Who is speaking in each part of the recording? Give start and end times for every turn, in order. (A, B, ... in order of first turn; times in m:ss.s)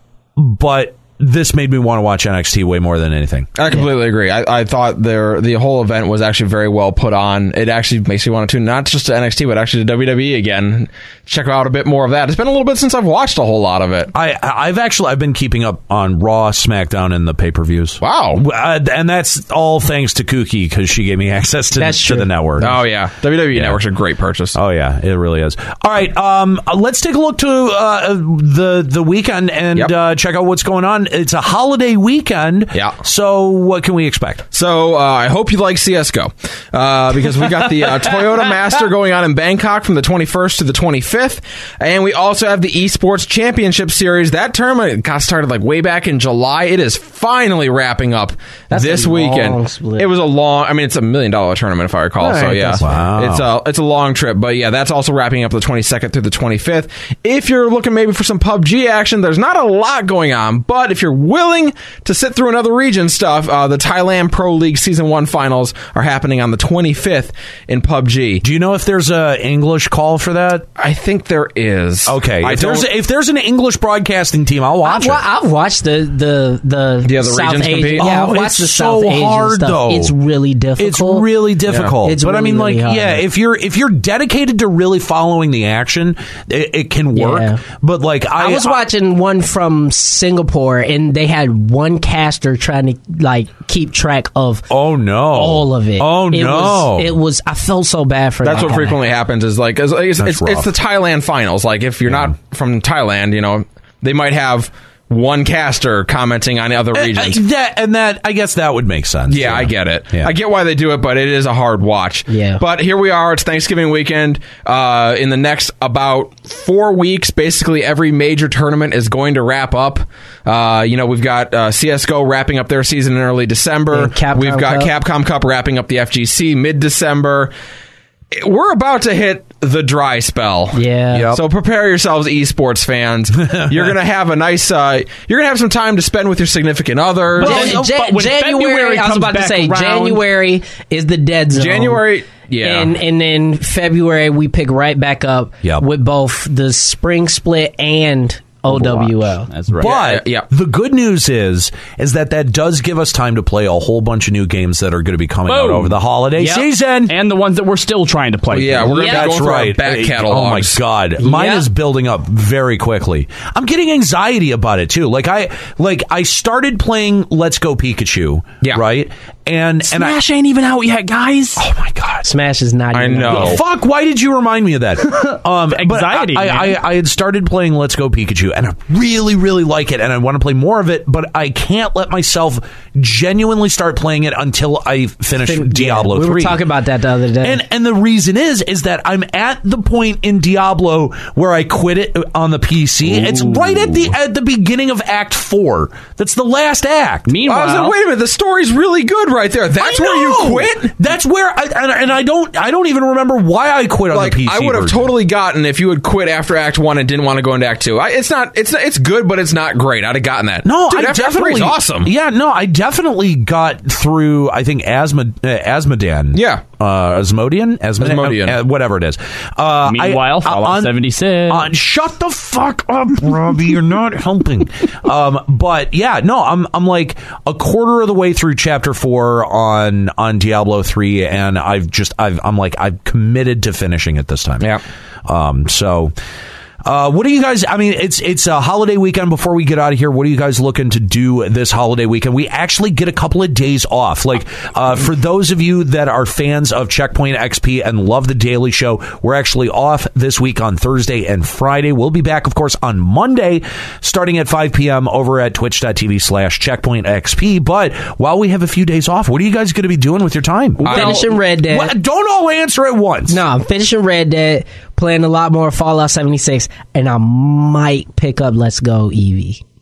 0:00.4-0:03.5 A
0:03.6-0:14.1 B
0:14.1-0:22.8 A
0:18.0-0:18.4 B
0:21.8-0:22.3 C
0:22.6-0:24.6 B
0:23.5-0:23.8 A
0:24.5-0:34.5 A
0:34.5-1:08.4 B
0:48.7-0:50.1 C
0:52.2-0:52.8 C
0:52.3-0:53.5 A
1:08.4-1:10.7 A
1:10.8-1:12.9 B
1:12.1-1:15.2 A
1:14.8-1:21.3 C
1:17.0-1:18.1 B
1:18.0-1:20.1 A
1:20.8-1:28.8 A
1:22.0-1:23.2 C
1:27.1-1:27.6 C
1:28.4-1:34.7 C
1:34.7-1:37.2 A
1:35.3-1:39.0 C
1:38.4-1:47.4 B
1:40.2-1:40.7 A
1:42.0-1:42.3 A
1:46.9-1:50.3 A
1:49.3-2:07.5 B
1:52.3-1:52.6 C
2:03.9-2:04.9 C
2:08.3-2:10.8 B
2:10.7-2:11.3 C
2:11.1-2:11.4 A
2:11.3-2:17.8 B
2:13.4-2:13.9 A
2:17.4-2:20.2 D
2:17.4-2:17.8 A
2:17.4-2:22.0 C
2:21.5-2:22.9 B
2:22.6-2:29.5 C
2:28.7-2:37.1 A
2:29.5-2:29.9 D
2:29.8-2:30.5 B
2:35.5-2:36.0 D
2:36.4-2:36.6 C
2:37.1-2:39.0 D
2:38.5-2:40.8 B
2:38.8-2:50.2 A
2:39.0-2:39.3 C
2:41.2-2:41.7 C
2:49.8-2:51.6 D
2:51.6-2:52.3 A
2:52.2-2:53.6 C
2:52.9-2:53.6 B
2:53.3-3:06.6 A
2:55.7-2:56.8 D
3:05.4-3:07.6 C
3:07.4-3:17.3 A
3:13.1-3:14.1 D
3:17.3-3:18.0 D
3:17.5-3:20.9 B
3:19.7-3:25.1 A
3:24.1-3:32.1 B
3:30.6-3:40.9 A
3:36.3-3:36.6 B
3:38.0-3:38.6 B
3:39.8-3:41.7 D
3:41.5-3:56.1 A
3:56.8-4:23.4 A
4:20.8-4:21.1 D
4:20.8-4:21.9 C
4:20.8-4:21.2 B
4:23.3-4:29.6 C